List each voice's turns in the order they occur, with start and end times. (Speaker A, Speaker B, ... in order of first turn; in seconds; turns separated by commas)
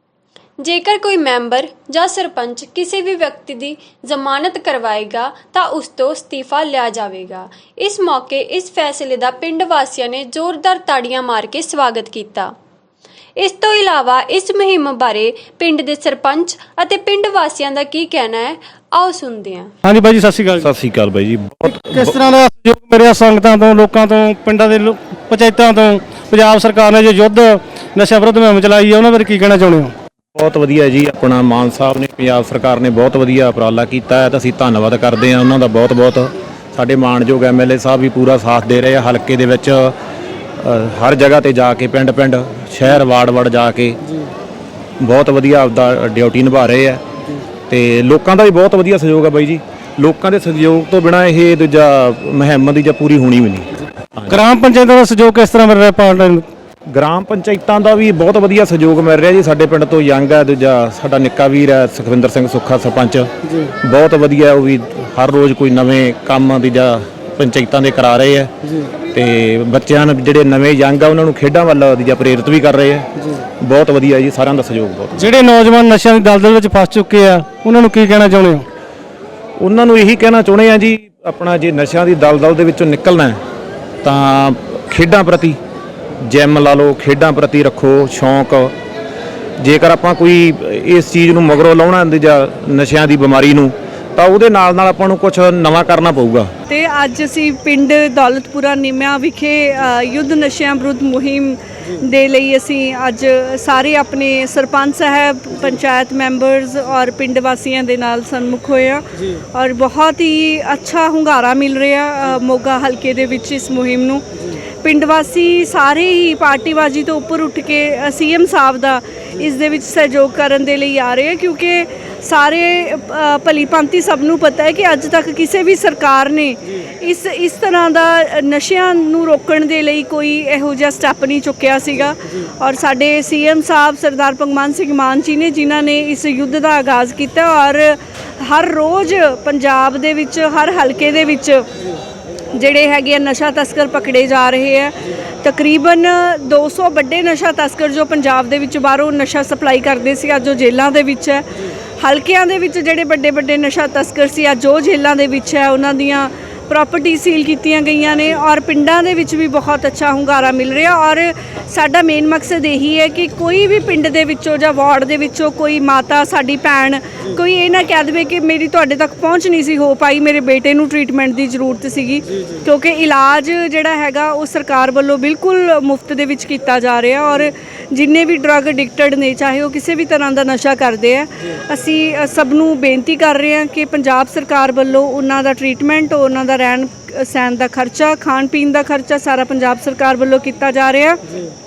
Speaker A: 0.6-12.5, Speaker A: 13.4-19.7, Speaker B: 19.8-20.7, Speaker C: 20.6-22.2, Speaker B: 21.7-29.9, Speaker C: 30.4-40.0, Speaker C: 40.6-44.0, Speaker C: 45.0-47.0, Speaker C: 47.7-54.4, Speaker B: 54.3-56.5, Speaker C: 56.9-63.3, Speaker C: 63.8-68.5, Speaker C: 69.1-73.1, Speaker C: 73.6-75.3, Speaker B: 75.2-78.7, Speaker C: 79.6-83.4, Speaker C: 84.0-85.6, Speaker C: 86.2-88.7, Speaker C: 89.6-96.5, Speaker D: 96.7-114.3, Speaker D: 114.8-141.7, Speaker D: 142.5-191.2